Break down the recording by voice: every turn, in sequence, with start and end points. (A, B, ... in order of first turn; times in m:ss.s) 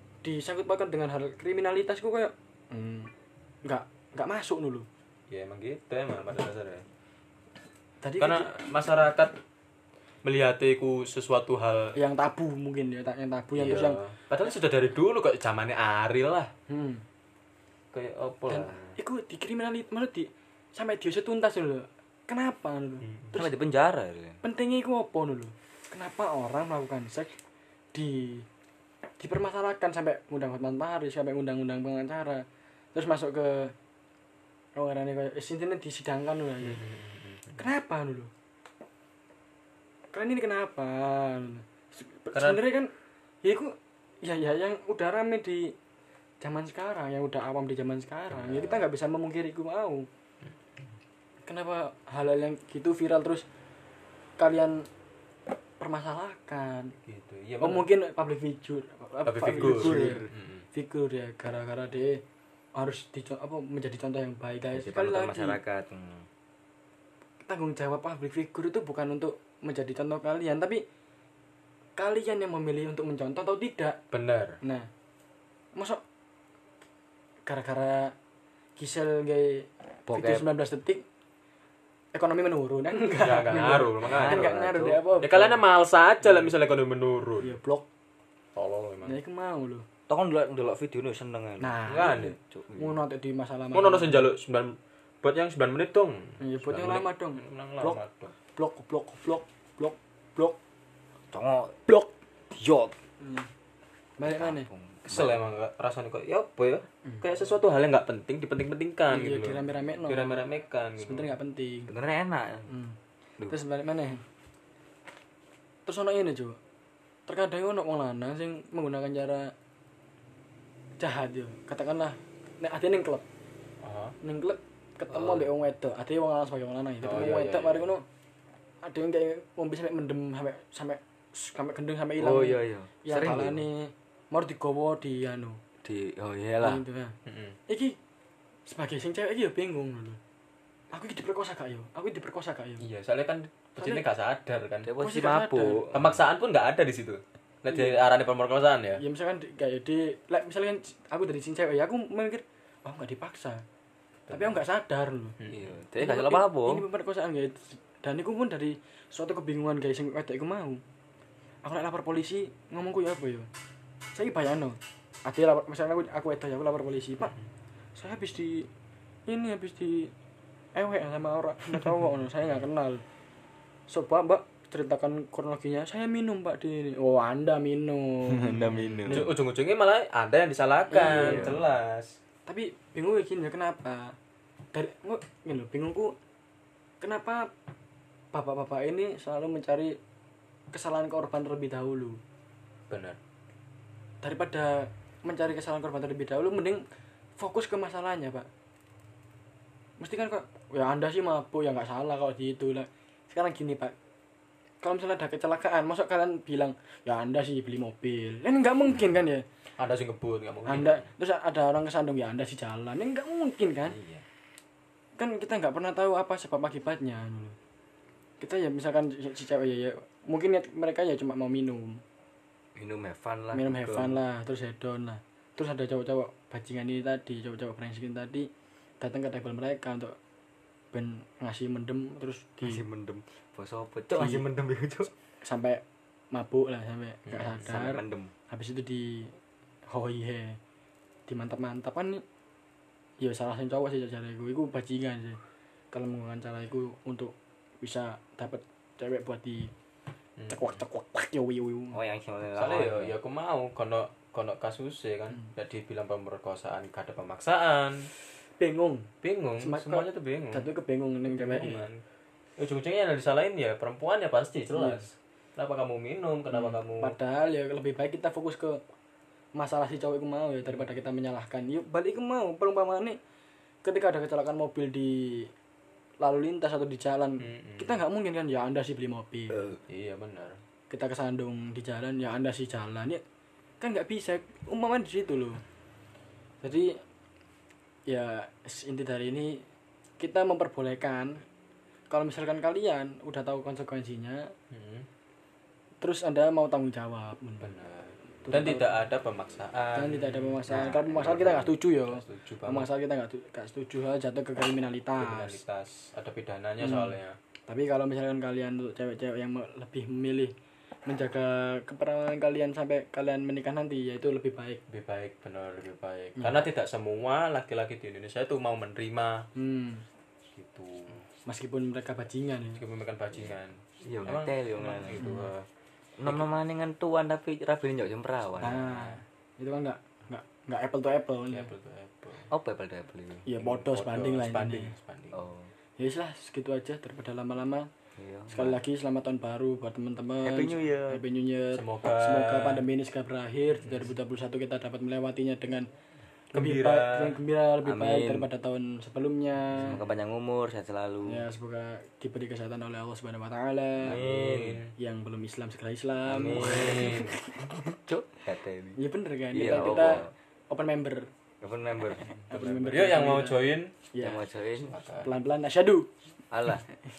0:00.2-0:03.1 A
0:03.6-0:04.9 A
0:05.3-0:06.8 B
0:08.0-0:08.5 A
0:08.2-0:09.4 B
0:10.2-0:11.9 B
0:11.9-0:14.0 A
0:13.6-0:16.5 B
0:16.7-0:17.0 A
0:17.9-0:19.0 B
0:18.5-0:23.6 A
0:23.0-0:23.3 B
0:23.4-0:24.4 C
0:24.4-0:27.4 A
0:27.9-0:28.4 A
0:29.2-0:33.7 A
0:34.8-0:37.0 A
0:36.6-0:37.6 B
0:37.6-0:38.3 A
0:40.1-0:42.9 A
0:42.3-0:42.6 B
0:43.4-0:45.7 A
0:46.4-0:50.1 A
0:48.3-0:48.9 B
0:51.4-0:53.4 A
0:54.4-0:54.9 A
0:55.8-0:56.9 A
0:57.0-0:57.9 B
0:57.6-1:02.2 A
0:59.2-1:00.6 B
0:59.6-1:00.3 C
1:02.8-1:05.6 A
1:04.7-1:06.2 C
1:07.5-1:10.8 A
1:12.0-1:14.0 A
1:14.1-1:14.6 B
1:14.6-1:14.9 A
1:15.7-1:16.0 A
1:17.5-1:18.1 A
1:18.8-1:21.0 A
1:20.1-1:20.4 C
1:22.1-1:25.6 A
1:23.2-1:24.6 B
1:24.0-1:25.1 C
1:25.2-1:27.6 B
1:26.2-1:26.5 A
1:27.4-1:27.8 A
1:28.5-1:29.2 B
1:29.0-1:29.8 A
1:30.1-1:33.0 C
1:31.6-1:34.3 A
1:31.8-1:32.4 B
1:33.7-1:38.3 B
1:36.4-1:38.0 A
1:38.5-1:40.6 A
1:41.3-1:41.8 C
1:42.5-1:43.0 C
1:43.2-1:43.5 A
1:44.2-1:44.7 A
1:44.2-1:45.4 C
1:45.1-1:51.3 B
1:49.1-1:50.4 A
1:51.0-1:51.9 A
1:51.9-1:52.7 C
1:52.7-1:53.0 A
1:53.5-1:54.2 A
1:55.8-1:56.6 A
1:57.3-1:59.5 A
2:01.0-2:03.2 A
2:03.8-2:04.2 B
2:04.2-2:08.0 A
2:05.1-2:05.5 B
2:07.0-2:07.9 B
2:08.8-2:15.6 A
2:12.2-2:13.6 C
2:15.8-2:16.8 C
2:16.6-2:17.2 A
2:17.2-2:17.6 B
2:17.7-2:18.0 A
2:18.7-2:20.2 A
2:20.9-2:22.8 A
2:22.8-2:24.9 B
2:23.8-2:24.0 A
2:24.8-2:26.2 C
2:25.0-2:25.9 A
2:25.9-2:29.0 B
2:27.7-2:28.0 A
2:29.0-2:33.6 A
2:34.3-2:34.6 B
2:34.3-2:35.3 A
2:35.4-2:35.7 B
2:35.5-2:36.8 C
2:36.0-2:40.8 A
2:41.6-2:43.5 A
2:44.1-2:47.4 A
2:48.0-2:48.7 A
2:49.3-2:50.1 A
2:50.7-2:53.0 A
2:53.9-2:59.3 A
2:58.3-2:59.2 C
2:59.1-3:02.2 B
3:00.9-3:01.6 A
3:01.0-3:01.6 C
3:02.5-3:04.2 A
3:04.7-3:06.1 A
3:07.0-3:07.5 A
3:08.3-3:10.0 A
3:10.7-3:12.2 A
3:12.9-3:13.2 B
3:14.2-3:16.8 A
3:17.4-3:18.5 A
3:20.0-3:23.9 A
3:24.8-3:29.4 A
3:29.8-3:31.1 B
3:30.6-3:34.0 A
3:33.9-3:34.2 B
3:35.2-3:37.6 A
3:38.4-3:42.0 A
3:42.7-3:44.2 C
3:43.5-3:48.5 A
3:49.0-3:50.2 A
3:50.9-3:52.8 A
3:52.6-3:55.1 C
3:54.1-3:54.5 A
3:55.4-3:59.3 A
3:57.3-3:57.7 B
3:57.6-3:58.3 C
3:59.9-4:00.6 A
4:01.3-4:02.2 A
4:03.2-4:05.4 A
4:05.9-4:09.7 A
4:10.4-4:10.8 B
4:10.5-4:12.0 A
4:11.9-4:13.1 C
4:12.5-4:18.1 B
4:18.6-4:19.1 A
4:19.2-4:20.7 B
4:19.6-4:21.8 A
4:21.3-4:22.0 B
4:22.6-4:27.2 B
4:24.7-4:25.0 A
4:26.5-4:28.8 A
4:29.6-4:33.2 A
4:33.8-4:35.5 A
4:36.2-4:39.6 A
4:37.4-4:38.0 B
4:39.9-4:40.6 B
4:40.9-4:43.2 A
4:43.8-4:45.6 A
4:46.6-4:47.0 A
4:48.1-4:49.6 A
4:50.2-4:51.4 A
4:52.1-4:54.5 A
4:54.7-4:55.1 B
4:56.0-4:57.7 A
4:57.6-5:02.9 B
4:58.4-4:58.9 A
4:59.9-5:05.6 A
5:05.2-5:07.4 B
5:06.8-5:07.2 A
5:07.7-5:10.5 A
5:11.0-5:14.8 A
5:14.9-5:19.5 B
5:16.4-5:16.7 A
5:19.5-5:20.0 A
5:20.5-5:21.2 B
5:21.4-5:22.8 A
5:22.8-5:25.6 B
5:24.0-5:25.2 C
5:25.2-5:25.5 A
5:26.2-5:29.0 C
5:28.6-5:31.7 A
5:31.5-5:32.5 B
5:32.5-5:33.4 C
5:33.4-5:34.9 A
5:33.6-5:35.5 B
5:35.3-5:35.7 C
5:36.0-5:37.9 A
5:38.2-5:38.8 C
5:38.5-5:45.9 A
5:40.4-5:41.2 C
5:41.7-5:42.8 B
5:46.5-5:47.4 B
5:46.5-5:50.0 A
5:47.8-5:48.5 C
5:49.7-5:51.4 C
5:51.2-5:54.2 A
5:54.0-5:54.8 C
5:54.1-5:54.9 B
5:55.0-5:58.0 A
5:56.2-5:59.0 C
5:56.6-5:57.4 B
5:59.0-6:01.3 A
5:59.5-6:00.3 C
6:01.6-6:02.9 C
6:02.1-6:03.6 A
6:02.8-6:03.9 B
6:04.1-6:04.4 A
6:04.2-6:05.0 C
6:04.9-6:05.3 B
6:05.2-6:06.1 A
6:06.5-6:06.8 C